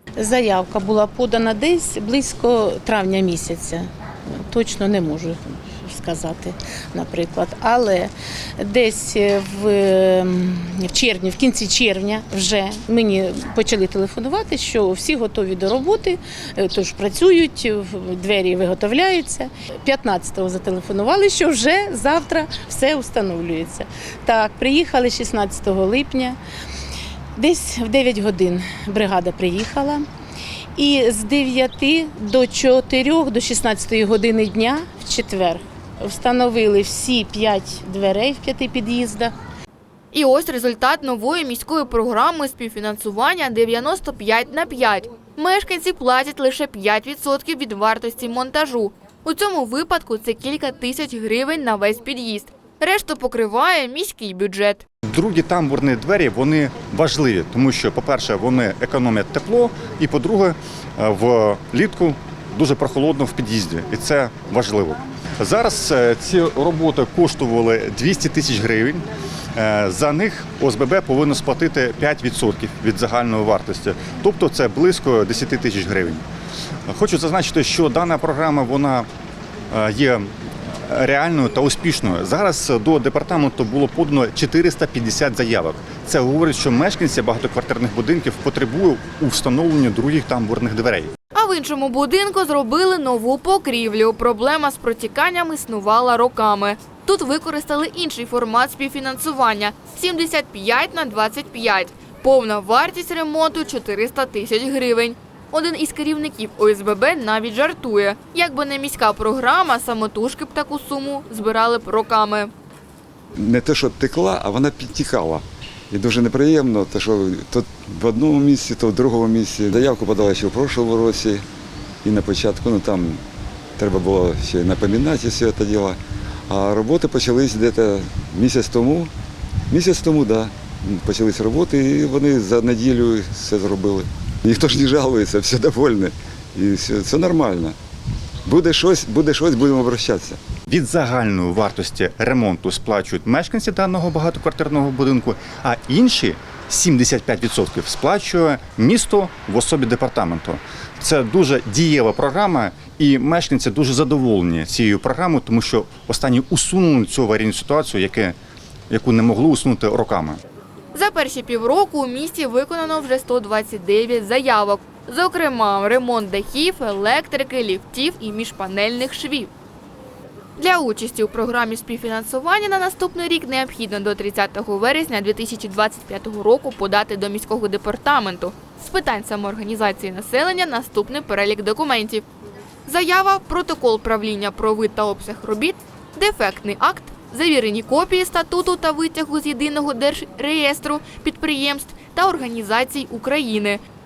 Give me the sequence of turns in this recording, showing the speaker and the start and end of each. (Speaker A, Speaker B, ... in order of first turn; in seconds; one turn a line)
Speaker A: 0.2-26.4
Speaker A: 27.4-30.1
Speaker A: 30.7-39.3
Speaker B: 40.1-54.8
Speaker C: 55.1-69.0
Speaker C: 69.5-76.2
Speaker C: 76.9-79.1
Speaker C: 79.7-80.3
Speaker C: 80.8-91.1
Speaker B: 91.3-112.5
Speaker D: 113.4-115.4
Speaker A: 113.9-115.2
Speaker D: 115.9-121.4
Speaker A: 116.2-117.6
Speaker A: 118.3-121.3
Speaker D: 122.0-123.2
Speaker A: 122.2-122.6
Speaker D: 123.8-125.9
Speaker A: 123.8-126.0
Speaker A: 126.5-127.6
Speaker D: 126.5-129.0
Speaker A: 128.2-129.1
Speaker D: 129.7-136.1
Speaker A: 129.9-130.4
Speaker A: 131.1-133.1
Speaker A: 135.1-137.0
Speaker D: 136.7-137.7
Speaker D: 138.5-140.4
Speaker C: 140.7-158.3
Speaker C: 158.9-160.4
Speaker B: 160.9-169.5
Speaker B: 170.6-182.2
Speaker B: 182.9-193.8